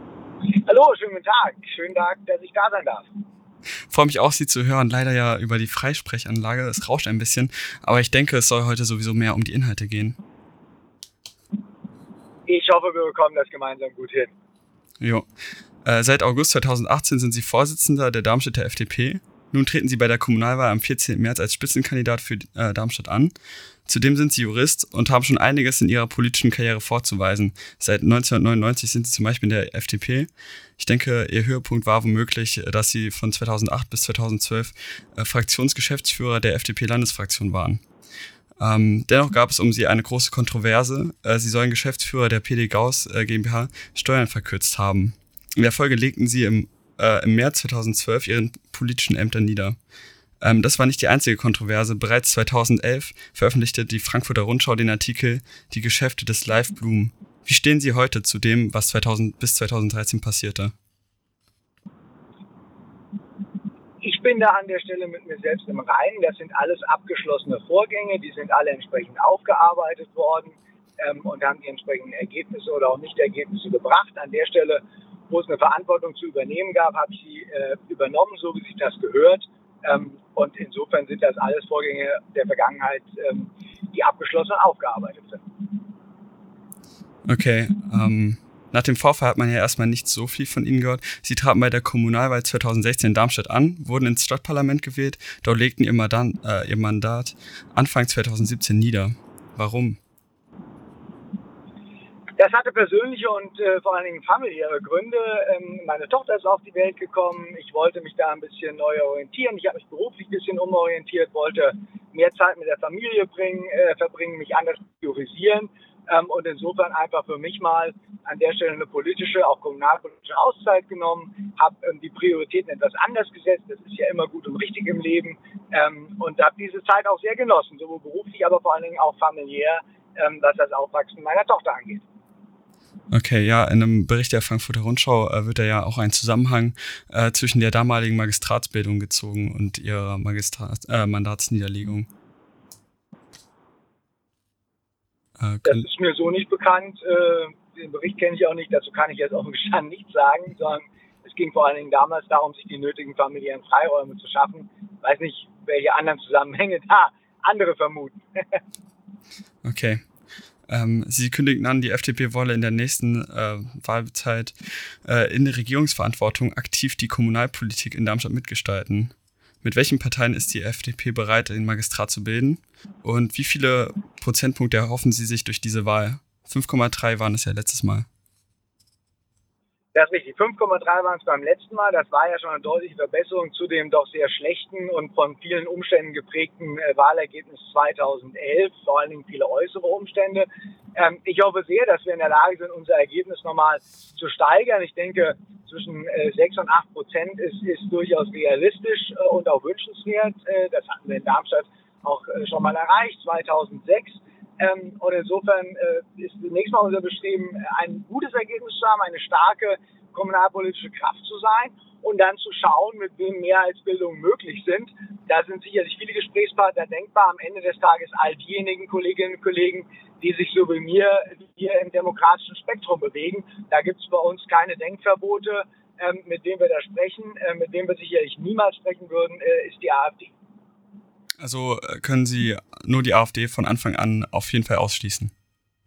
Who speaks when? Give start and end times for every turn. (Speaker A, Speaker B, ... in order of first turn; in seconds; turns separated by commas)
Speaker A: 0.5-3.1, Speaker B: 3.9-10.2, Speaker A: 12.5-14.3, Speaker B: 15.0-15.3, Speaker B: 15.8-23.3, Speaker B: 23.9-37.8, Speaker B: 38.6-49.8, Speaker B: 50.4-60.7, Speaker A: 64.0-85.5, Speaker B: 87.3-100.0, Speaker A: 102.4-132.1, Speaker B: 133.1-142.1, Speaker B: 145.4-145.9, Speaker A: 145.7-158.6, Speaker B: 159.6-160.1, Speaker B: 160.7-178.1, Speaker A: 179.9-230.3, Speaker B: 231.4-235.3